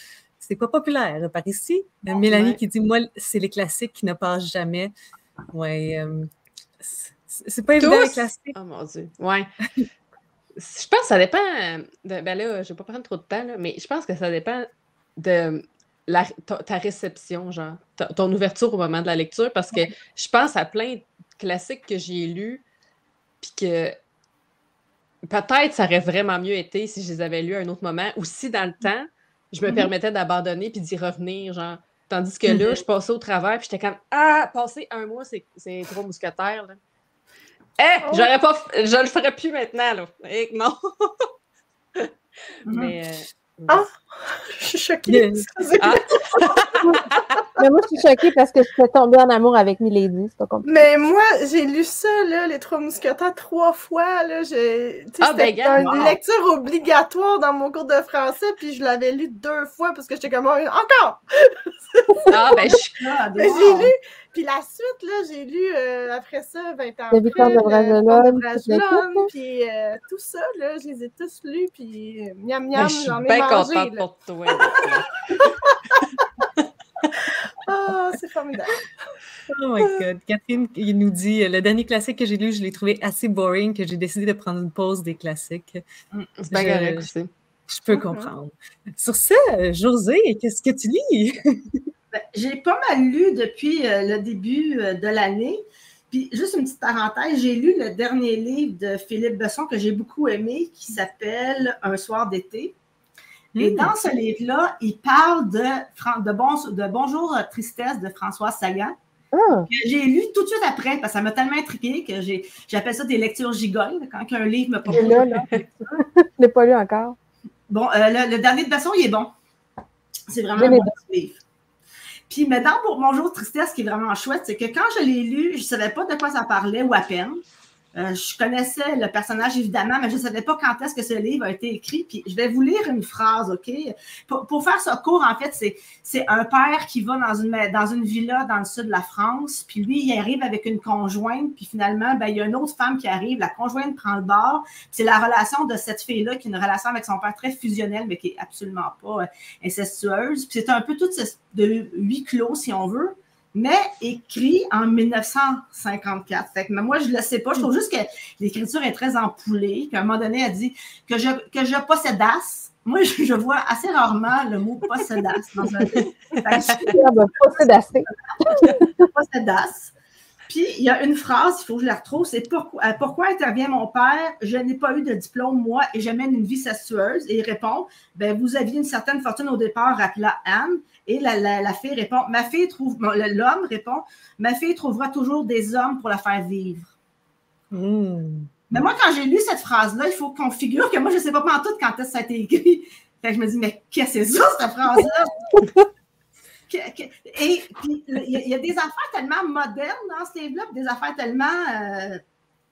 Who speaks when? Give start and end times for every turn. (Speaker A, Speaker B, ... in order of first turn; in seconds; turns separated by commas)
Speaker A: 0.4-4.9, Speaker B: 2.2-2.6, Speaker A: 5.5-6.3, Speaker A: 6.8-8.5, Speaker B: 7.8-9.5, Speaker B: 10.6-22.6, Speaker B: 23.4-23.9, Speaker B: 25.3-36.8, Speaker B: 37.8-41.3, Speaker C: 38.0-38.3, Speaker D: 42.6-42.9, Speaker B: 42.6-43.8, Speaker C: 43.7-47.6, Speaker A: 45.1-45.5, Speaker B: 45.8-47.3, Speaker E: 47.6-50.7, Speaker C: 50.6-62.8, Speaker B: 55.2-56.1, Speaker D: 55.7-56.1, Speaker B: 62.3-63.0, Speaker D: 62.6-63.9, Speaker C: 63.4-76.0, Speaker E: 67.1-69.3, Speaker B: 72.8-75.2, Speaker C: 77.6-78.9, Speaker A: 79.5-85.8, Speaker B: 86.4-87.3, Speaker A: 86.5-87.1, Speaker A: 87.7-91.8, Speaker C: 87.9-88.3, Speaker D: 92.1-102.8, Speaker A: 103.5-103.9, Speaker D: 103.6-109.0, Speaker E: 109.3-109.7, Speaker D: 109.7-115.5, Speaker E: 114.9-117.2, Speaker D: 117.7-119.3, Speaker D: 120.3-121.4, Speaker E: 120.5-120.9, Speaker D: 122.3-127.4, Speaker D: 127.9-167.0, Speaker E: 166.8-168.8, Speaker D: 168.5-169.9, Speaker D: 170.5-186.9, Speaker A: 187.7-188.5, Speaker D: 188.7-195.4, Speaker D: 196.7-202.2